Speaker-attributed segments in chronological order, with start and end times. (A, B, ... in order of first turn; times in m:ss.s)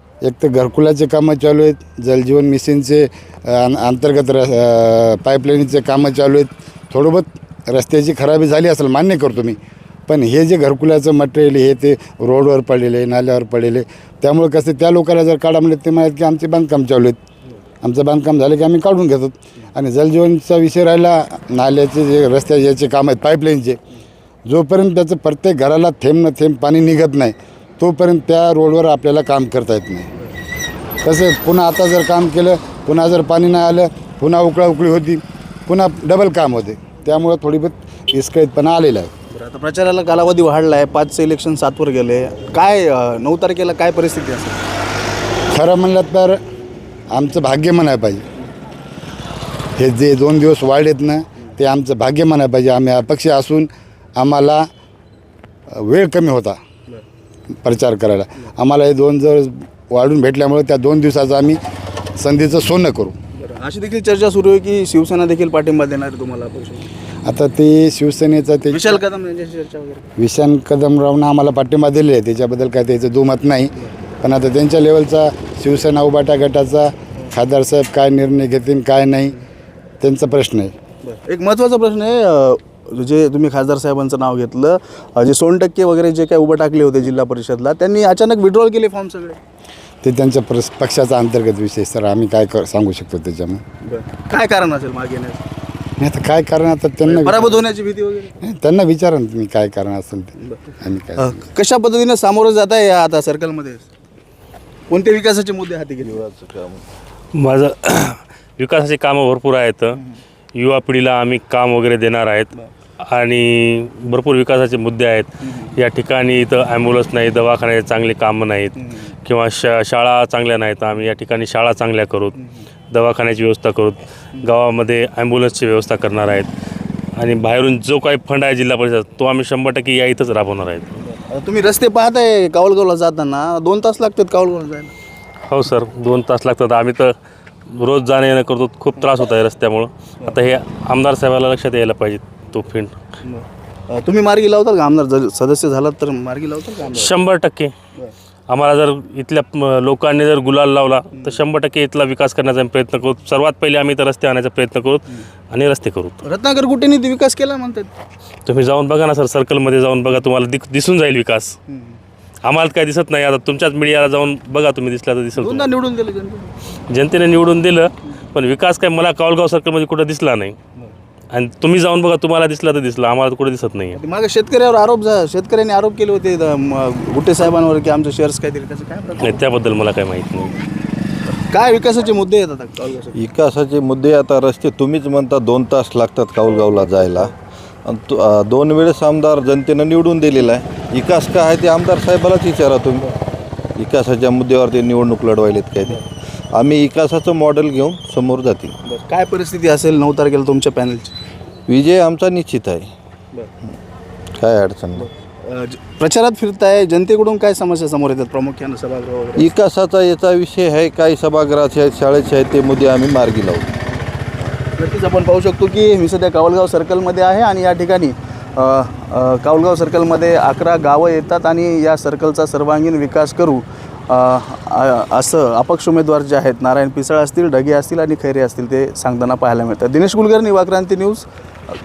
0:00.2-0:17.2 A
0:17.8-0:23.8 A
0:24.5-0:30.1 A
0:31.0-0:39.1 A
0:39.3-0:44.6 B
0:45.5-0:46.4 A
0:47.1-0:48.2 A
0:49.8-0:54.7 A
0:55.7-0:56.6 A
0:57.6-1:01.6 A
1:02.2-1:03.2 A
1:03.4-1:06.9 B
1:07.2-1:09.0 A
1:08.7-1:10.0 B
1:10.2-1:19.4 A
1:20.0-1:20.7 A
1:21.0-1:29.4 B
1:30.0-1:33.6 A
1:33.8-1:35.4 B
1:36.0-1:37.7 A
1:37.1-1:38.3 B
1:38.4-1:41.4 A
1:41.2-1:43.9 B
1:44.9-1:46.2 B
1:46.0-1:46.8 C
1:47.4-1:50.0 D
1:50.6-2:02.4 D
1:55.4-1:55.8 B
1:58.8-1:59.1 B
2:02.4-2:02.6 B
2:02.9-2:06.5 D
2:07.2-2:11.0 D
2:11.2-2:14.9 B
2:15.5-2:17.1 D
2:17.7-2:23.0 D
2:23.2-2:27.1 B
2:26.9-2:27.7 D
2:28.5-2:36.2 D
2:31.1-2:31.4 B
2:36.2-2:37.9 B
2:38.5-2:41.6 D
2:41.7-2:42.0 B
2:42.4-2:45.7 D
2:45.4-2:46.5 B
2:46.9-2:50.6 D
2:51.3-2:54.0 D
2:54.0-2:59.4 B
2:59.2-3:00.6 D
3:01.4-3:03.2 B
3:03.2-3:07.3 C
3:07.9-3:13.1 C
3:13.8-3:18.8 C
3:18.8-3:21.1 B
3:21.7-3:22.9 C
3:24.4-3:25.1 C
3:25.0-3:29.5 B
3:29.4-3:33.8 C
3:34.8-3:51.3 B